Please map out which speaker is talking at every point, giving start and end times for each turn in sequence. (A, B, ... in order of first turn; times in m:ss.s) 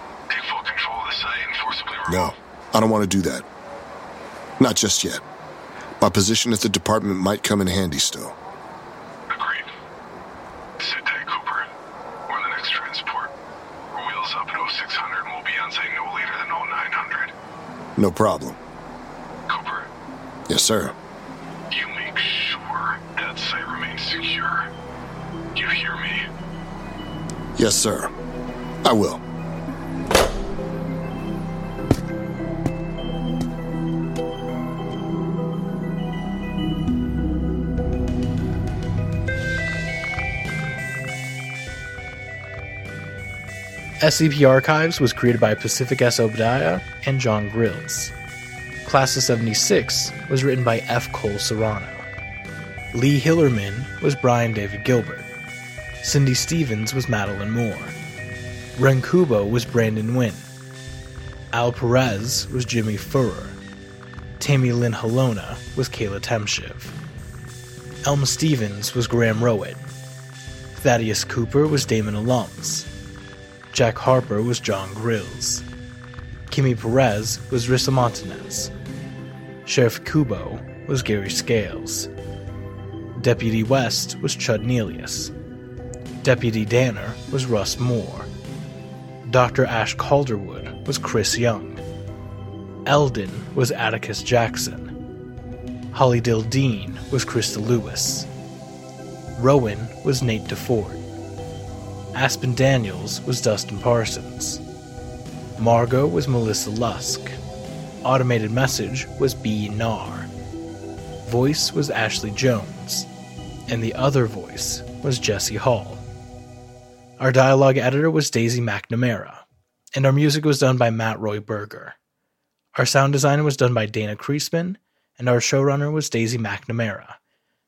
0:00.3-0:02.3 A
0:02.1-0:03.4 B
0:04.6-0:05.2 B
0:06.0-0:08.3 B
0:09.3-0:09.6 A
0:10.8-0:11.6 A
0:12.3-0:13.3 A
0:13.9-0:17.3 A
0:18.0-0:18.6 B
0:19.5-0:19.8 A
0:20.5-0:20.9 B
0:21.7-0:24.6 A
0:25.5-0:26.2 A
0:27.6-0:28.1 B
0:28.8-0:29.2 B
0:44.0-0:48.1 C
0:48.8-0:52.0 C
0:52.9-0:55.3 C
0:56.0-0:58.0 C
0:58.8-1:00.5 C
1:01.5-1:03.6 C
1:04.4-1:06.9 C
1:08.0-1:09.9 C
1:10.7-1:12.9 C
1:13.7-1:15.6 C
1:16.5-1:18.7 C
1:19.6-1:22.1 C
1:23.2-1:25.3 C
1:26.2-1:28.3 C
1:29.2-1:31.8 C
1:32.8-1:34.9 C
1:35.9-1:38.3 C
1:39.4-1:41.0 C
1:42.1-1:44.6 C
1:45.6-1:47.3 C
1:48.0-1:50.3 C
1:51.2-1:53.1 C
1:53.7-1:56.0 C
1:57.2-1:59.4 C
1:59.9-2:02.0 C
2:02.7-2:07.2 C